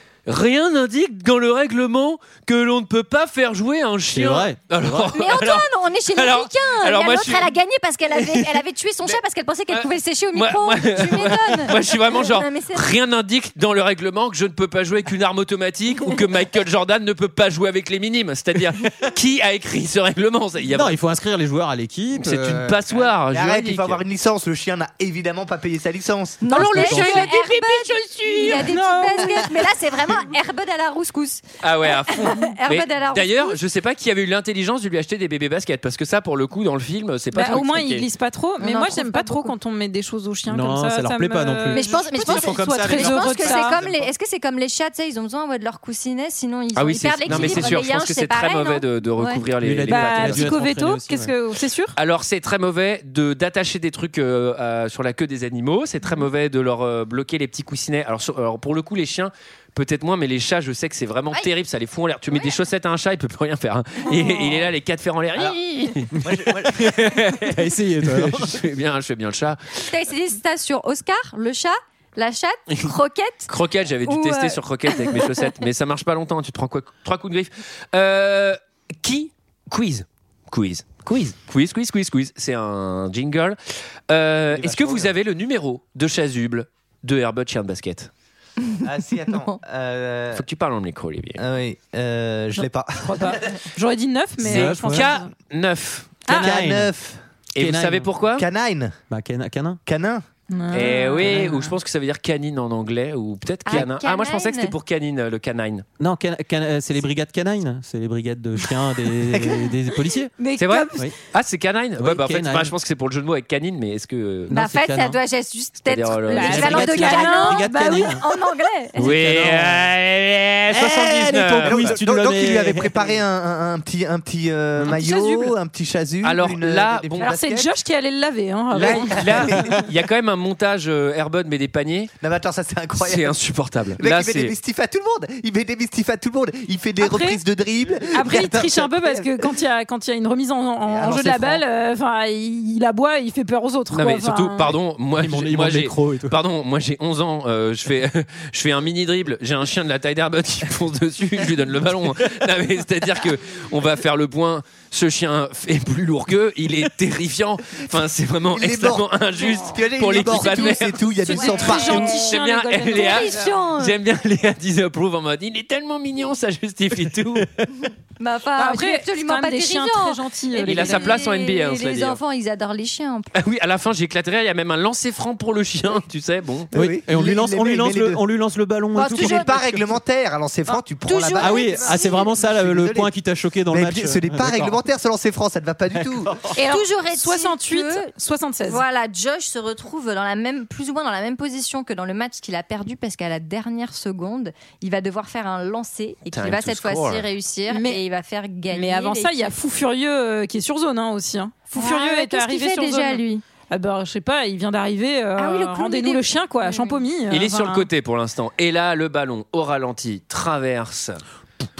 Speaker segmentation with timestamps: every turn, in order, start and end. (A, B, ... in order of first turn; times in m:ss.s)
0:00.3-0:07.5 A
0:04.1-0:05.0 B
0:05.0-0:12.9 C
0:08.2-0:08.5 A
0:09.7-0:21.0 A
0:20.7-0:22.8 B
0:22.2-0:24.0 A
0:23.1-0:26.4 D
0:26.4-0:33.6 C
0:26.5-0:28.7 A
0:26.5-0:27.3 B
0:28.4-0:29.5 E
0:31.6-0:38.0 A
0:37.3-0:43.8 E
0:38.6-0:39.5 C
0:40.5-0:44.1 B
0:41.7-0:49.4 C
0:46.7-0:50.6 A
0:47.2-0:47.8 B
0:49.6-0:51.3 B
0:49.9-0:51.9 E
0:52.0-1:09.9 A
1:02.3-1:02.6 C
1:04.1-1:04.6 C
1:06.2-1:07.0 D
1:06.9-1:08.6 B
1:09.9-1:13.5 C
1:13.5-1:23.6 A
1:14.0-1:15.3 C
1:24.1-1:28.1 A
1:24.5-1:25.1 D
1:28.8-1:30.4 D
1:30.3-1:31.4 A
1:31.4-1:33.4 D
1:33.0-1:35.3 E
1:34.4-1:35.1 B
1:34.4-1:36.2 A
1:36.3-1:37.2 D
1:36.3-1:36.9 B
1:37.5-1:38.4 A
1:37.6-1:38.1 B
1:38.4-1:39.0 D
1:39.1-1:39.8 B
1:39.8-1:40.2 D
1:40.5-1:41.7 E
1:40.7-1:45.8 A
1:41.2-1:41.5 B
1:43.6-1:44.7 C
1:46.0-1:50.3 B
1:49.3-1:49.7 E
1:50.4-1:51.1 E
1:50.6-1:54.5 A
1:52.0-1:52.7 B
1:54.5-1:55.2 B
1:54.5-1:59.2 C
1:55.8-1:57.0 A
1:56.3-1:58.2 E
1:56.4-1:58.2 B
1:59.0-2:01.9 A
1:59.0-1:59.9 B
2:00.7-2:02.9 B
2:01.6-2:07.7 D
2:04.9-2:05.5 E
2:06.2-2:07.3 A
2:07.2-2:09.7 E
2:08.7-2:12.1 A
2:08.8-2:09.8 D
2:12.2-2:13.4 D
2:13.0-2:14.5 A
2:14.0-2:19.5 D
2:17.0-2:17.4 E
2:18.1-2:24.8 E
2:20.8-2:21.6 D
2:23.9-2:47.5 A
2:25.2-2:26.4 B
2:38.5-2:42.2 D
2:40.3-2:44.0 C
2:41.3-2:43.5 E
2:48.2-2:53.3 C
2:48.6-2:51.1 E
2:50.6-2:52.2 A
2:53.3-2:56.7 A
2:56.7-2:58.2 D
2:56.7-2:59.8 B
2:58.9-2:59.6 C
2:59.1-3:03.1 D
3:01.0-3:02.3 C
3:01.4-3:04.8 B
3:03.7-3:06.3 D
3:06.0-3:06.5 B
3:06.5-3:08.1 C
3:06.6-3:08.8 E
3:08.6-3:19.5 C
3:16.3-3:17.2 A
3:17.7-3:18.0 E
3:18.7-3:27.9 E
3:21.7-3:23.4 C
3:25.4-3:27.0 C
3:27.3-3:31.2 A